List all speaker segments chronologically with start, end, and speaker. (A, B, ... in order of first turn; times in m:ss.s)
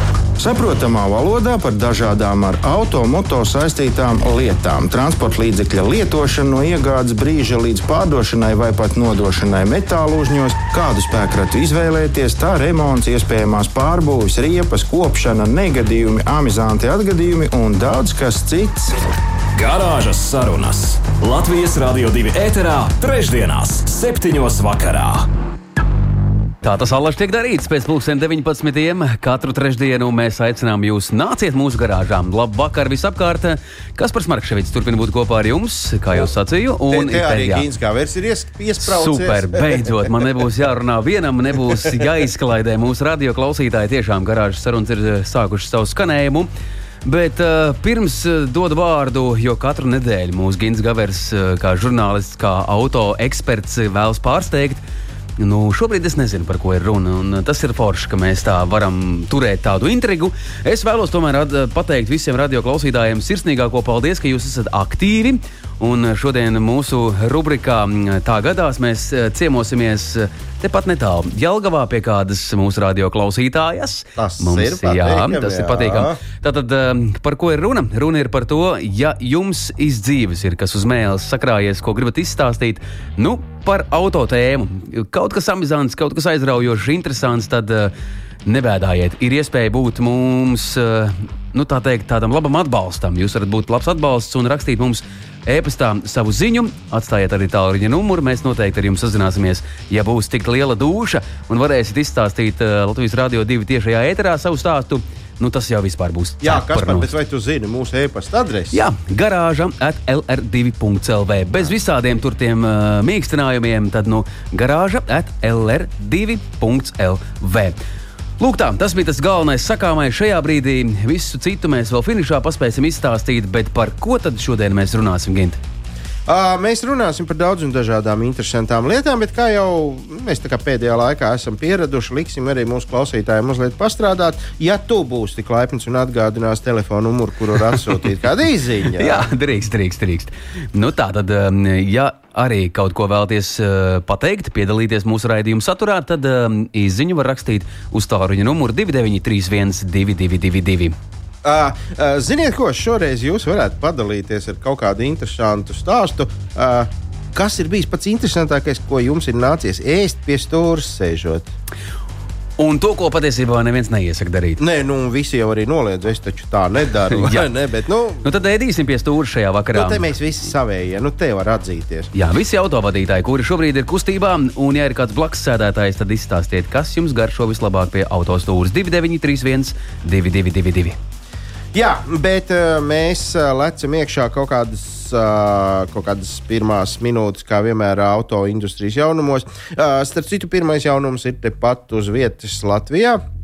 0:00.4-0:18.9 A
0:19.6-0:25.3 B
0:26.6-0:37.7 C
0:36.9-0:40.1 D
0:38.8-0:46.5 C
0:47.0-0:54.8 C
0:55.4-1:27.9 C
1:14.2-1:16.2 D
1:28.4-1:47.1 C
1:46.4-1:48.8 D
1:48.7-1:57.8 C
1:58.4-2:05.6 C
2:06.3-2:19.2 D
2:19.0-2:31.0 C
2:31.4-2:41.5 D
2:42.6-2:44.6 C
2:44.6-2:48.2 D
2:47.1-2:47.5 C
2:48.2-2:50.1 C
2:49.7-2:52.1 D
2:52.1-3:01.0 C
3:01.7-3:13.2 D